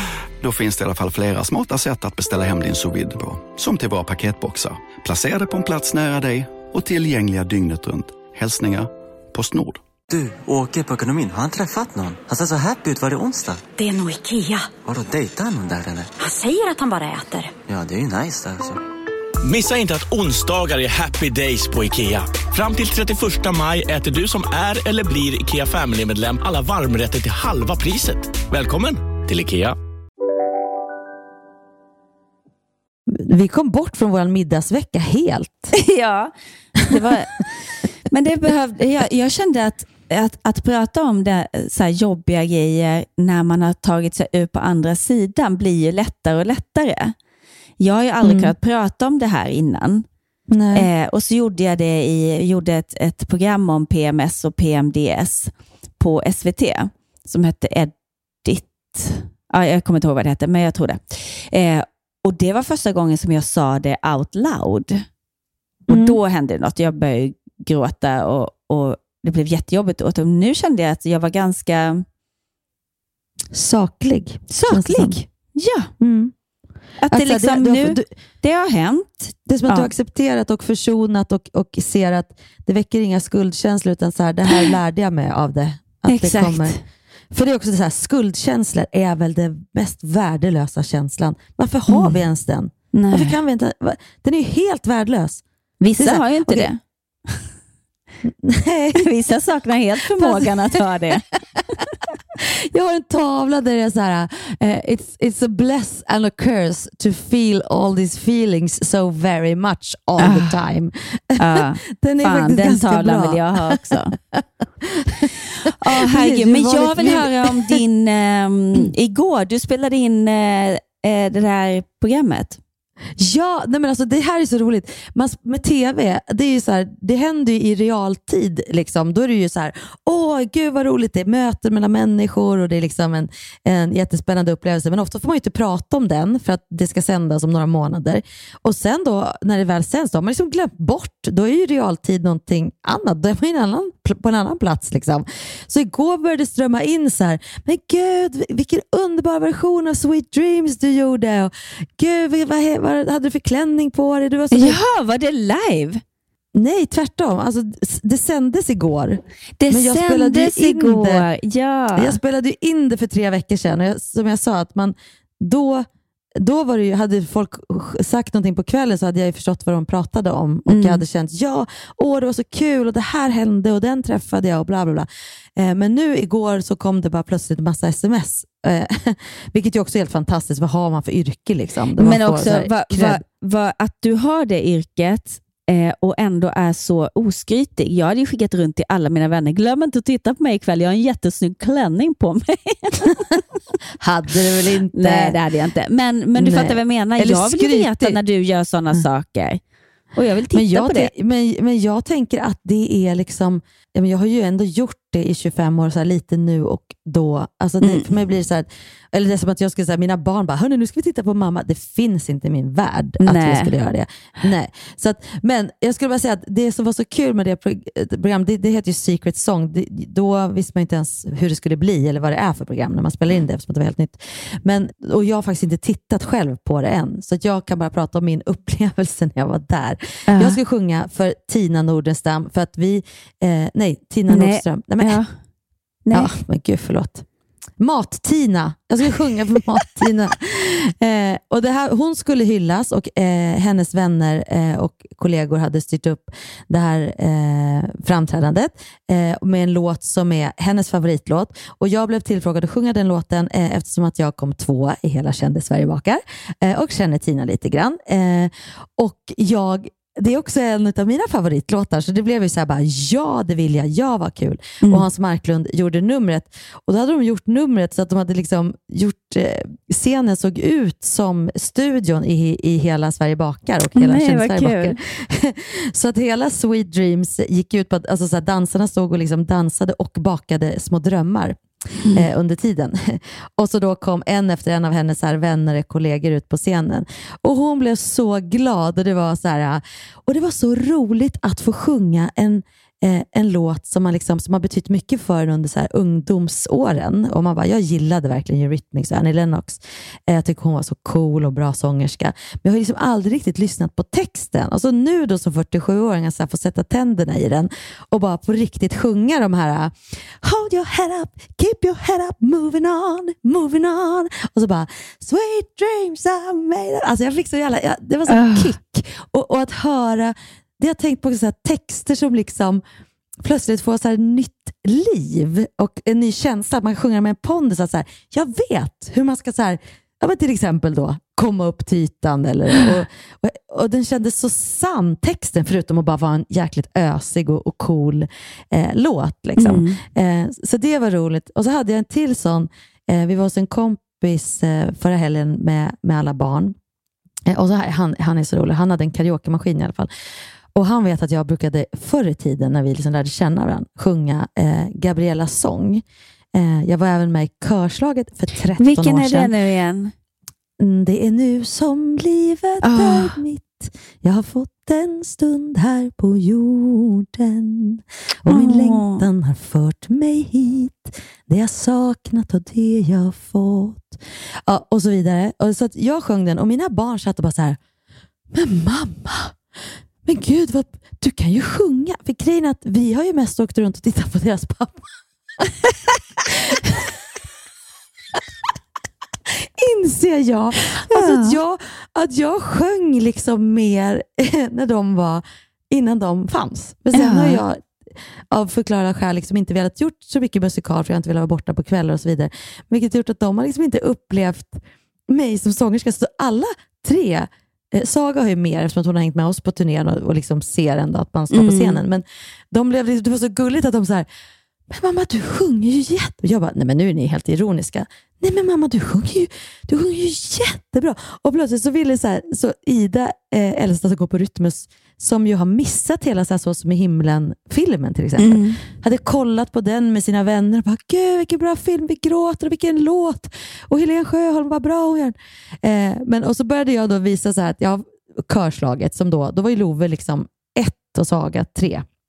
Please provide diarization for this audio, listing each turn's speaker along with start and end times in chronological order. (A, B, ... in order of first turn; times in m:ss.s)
0:00.4-0:09.8 A
0:10.1-0:13.6 B
0:13.8-0:14.7 C
0:14.8-0:16.1 B
0:16.2-0:17.5 C
0:17.7-0:18.8 B
0:19.4-0:29.8 D
0:33.1-0:35.7 E
0:35.7-0:36.3 F
0:36.8-0:47.1 F
0:47.8-0:50.0 F
0:48.2-0:48.5 E
0:50.5-0:50.9 E
0:50.7-0:57.9 F
0:58.4-1:05.0 F
1:05.9-1:06.2 E
1:05.9-1:12.0 F
1:13.5-1:15.2 E
1:14.5-1:15.9 F
1:16.0-1:16.3 E
1:17.0-1:19.9 F
1:17.1-1:18.1 E
1:19.5-1:26.8 E
1:26.1-1:26.8 F
1:27.3-1:35.4 E
1:31.9-1:32.2 F
1:32.9-1:33.4 F
1:35.8-1:36.8 F
1:36.0-1:36.7 E
1:38.2-1:39.0 E
1:39.0-1:41.2 F
1:40.1-1:40.5 E
1:42.4-1:57.8 E
1:50.2-1:50.6 F
1:51.4-1:54.1 F
1:55.6-2:02.6 F
2:03.2-2:34.8 E
2:34.5-2:36.0 F
2:36.5-2:41.3 E
2:39.6-2:42.2 F
2:41.9-2:45.8 E
2:46.4-3:03.2 E
2:50.7-2:51.0 F
3:02.0-3:13.4 F
3:14.0-3:15.4 E
3:14.9-3:19.6 F
3:16.4-3:18.2 E
3:20.1-3:21.1 F
3:20.5-3:55.2 E
3:27.8-3:28.1 F
3:33.2-3:33.7 F
3:50.3-3:50.6 F
3:54.3-3:55.3 F
3:56.1-3:57.2 E
3:57.8-4:41.6 E
4:33.9-4:35.0 F
4:42.1-5:22.8 E
5:18.3-5:18.7 F
5:23.4-5:46.8 E
5:39.6-5:40.0 F
5:47.5-5:50.1 E
5:50.7-5:56.0 E
5:56.5-5:59.5 E
5:58.8-6:00.1 F
6:00.8-6:17.8 E
6:02.8-6:03.4 F
6:08.5-6:09.2 F
6:18.5-6:19.6 E
6:20.2-6:25.1 E
6:29.6-6:37.9 E
6:30.9-6:31.6 F
6:37.1-6:37.6 F
6:38.5-6:54.3 E
6:51.5-6:52.0 F
6:54.9-7:22.0 E
7:08.4-7:08.8 F